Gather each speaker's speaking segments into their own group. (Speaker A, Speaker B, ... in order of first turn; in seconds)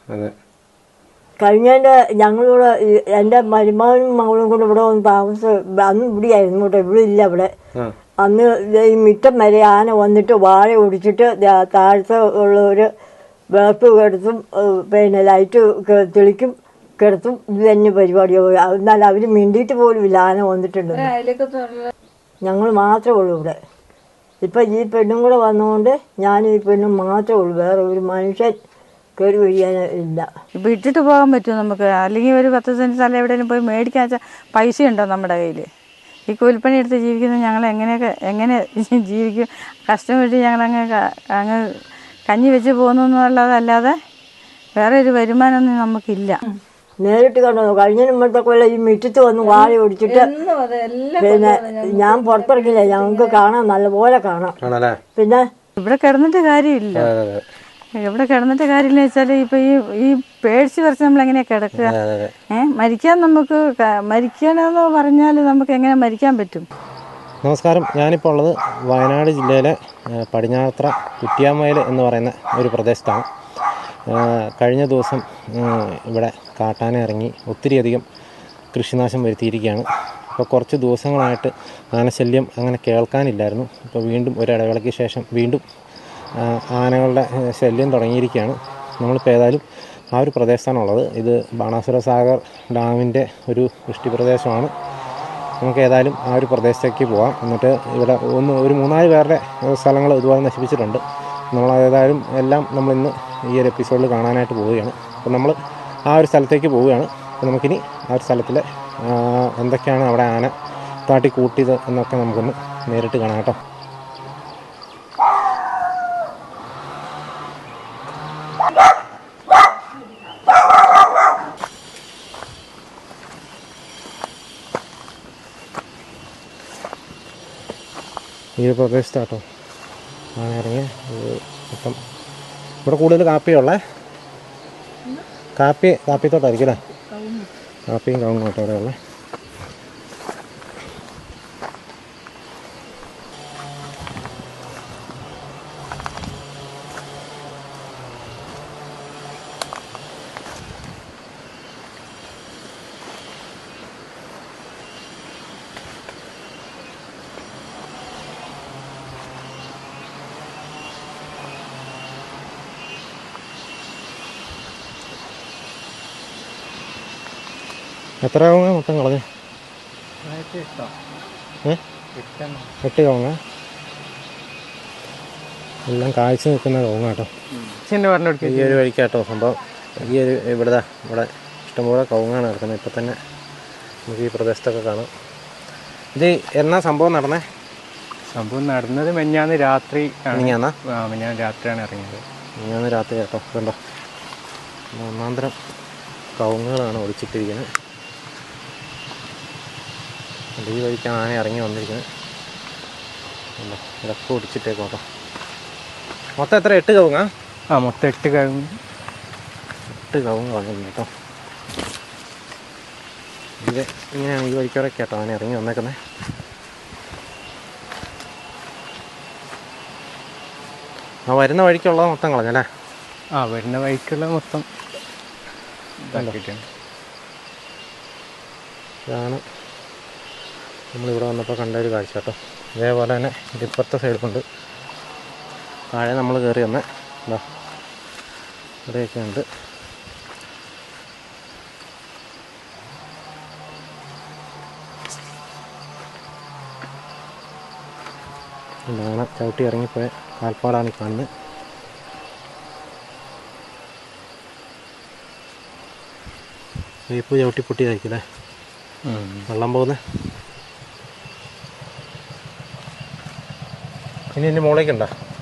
Speaker A: 1.4-7.5, 8.2-12.9, 13.5-21.1, 22.4-23.6, 24.4-28.6, 29.2-30.3, 47.0-50.3, 51.2-54.5, 55.1-55.5
Speaker B: 20.9-21.9, 30.6-35.7, 36.3-41.8, 42.3-44.0, 44.8-46.4, 49.4-53.4, 55.8-57.1, 57.9-61.9, 62.5-66.7, 136.8-137.5
Speaker C: 54.6-55.0, 56.9-57.4, 61.7-62.3, 67.4-73.2, 74.1-78.0, 78.7-85.6, 86.3-94.7, 95.6-101.0, 101.5-105.6, 106.1-110.5, 111.1-113.6, 128.6-129.4, 130.3-132.0, 132.8-133.8, 135.6-136.8, 137.9-138.9, 168.2-169.2, 172.8-173.4, 175.9-177.3, 178.4-183.2, 184.1-185.1, 186.1-187.5, 190.3-190.8, 192.6-193.8, 194.9-195.5, 196.4-197.7, 200.6-202.1, 203.6-205.0, 206.4-207.3, 209.9-211.1, 213.6-216.0, 221.3-222.7, 229.1-229.4, 230.9-234.4, 235.9-237.4, 238.9-239.4, 248.9-251.3, 257.1-258.2, 259.5-260.1, 264.3-265.1
Speaker D: 170.2-170.9, 172.1-172.7, 177.5-178.8, 188.3-192.2, 207.7-208.8, 223.3-224.7, 226.0-226.7, 259.0-259.5